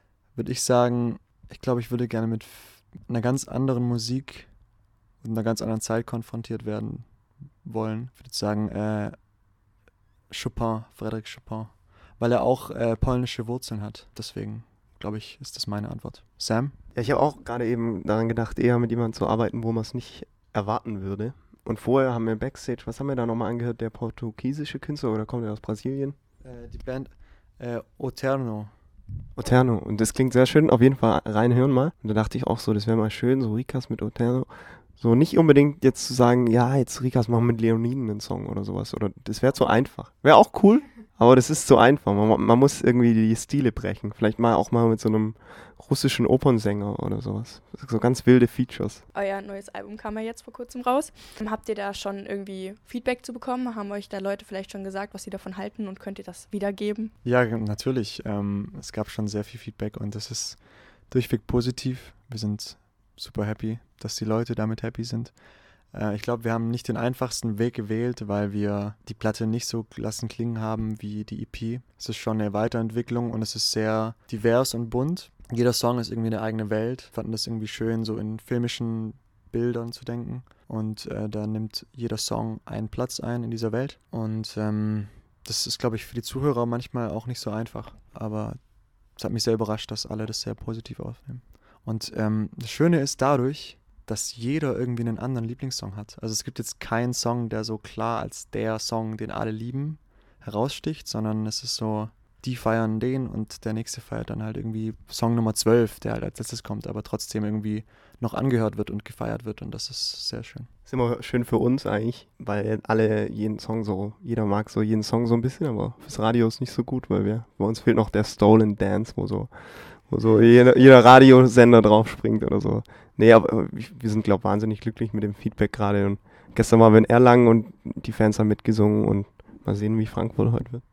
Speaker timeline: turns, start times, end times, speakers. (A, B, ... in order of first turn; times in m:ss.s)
0:00.3-0:04.6 A
0:05.2-0:09.4 A
0:10.3-0:16.8 A
0:16.9-0:26.2 B
0:26.4-0:28.7 A
0:29.3-0:49.0 B
0:49.1-0:57.1 C
0:57.2-1:50.7 A
1:50.8-2:10.8 B